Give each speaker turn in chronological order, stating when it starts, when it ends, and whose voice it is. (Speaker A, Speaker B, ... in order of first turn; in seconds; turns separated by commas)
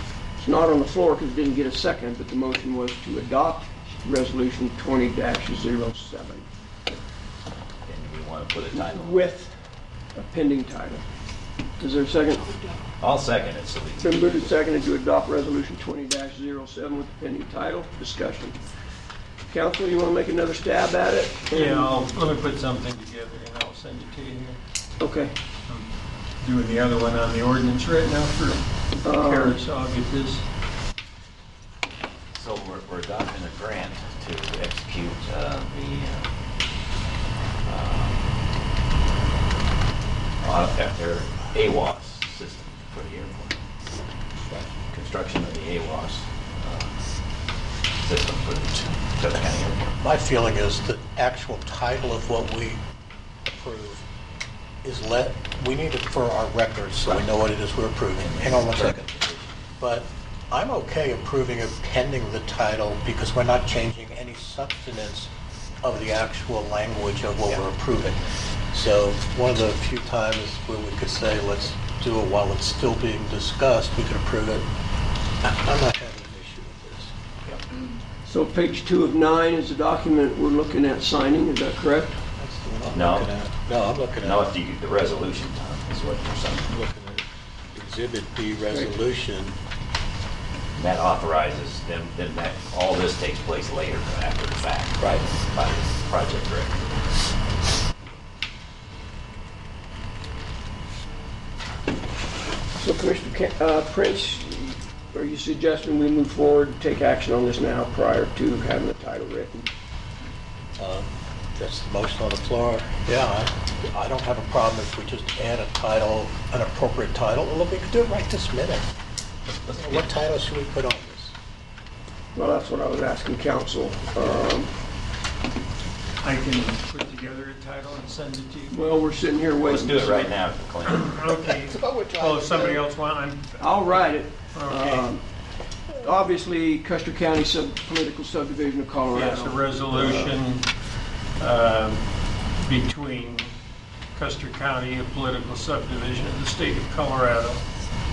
Speaker A: 0.4-6.5, Speaker B: 7.8-9.3, Speaker A: 8.7-9.5, Speaker A: 10.1-11.0, Speaker A: 11.8-12.8, Speaker B: 13.0-14.5, Speaker A: 14.0-18.6, Speaker A: 19.5-22.0, Speaker C: 21.5-24.6, Speaker A: 25.0-25.3, Speaker C: 26.4-30.4, Speaker A: 29.0-29.6, Speaker B: 32.3-36.3, Speaker B: 37.6-38.3, Speaker B: 40.4-43.6, Speaker B: 44.5-46.9, Speaker B: 48.0-49.9, Speaker D: 50.0-52.8, Speaker D: 53.4-54.0, Speaker D: 54.8-59.0, Speaker B: 58.2-59.5, Speaker D: 59.8-65.3, Speaker D: 65.8-74.7, Speaker D: 75.4-77.1, Speaker A: 78.2-82.2, Speaker D: 82.3-84.4, Speaker B: 82.9-83.3, Speaker B: 84.2-86.7, Speaker D: 86.7-89.6, Speaker B: 90.7-97.0, Speaker A: 102.8-109.7, Speaker D: 110.8-118.9, Speaker B: 119.5-120.0, Speaker D: 119.7-121.3, Speaker A: 122.3-124.7, Speaker C: 126.2-128.8, Speaker A: 128.7-130.3, Speaker B: 129.6-131.1, Speaker C: 130.8-135.1, Speaker D: 131.4-132.8, Speaker A: 133.6-135.2, Speaker A: 135.9-140.4, Speaker C: 139.1-140.7, Speaker C: 141.4-142.0, Speaker C: 142.6-143.5, Speaker C: 144.1-147.6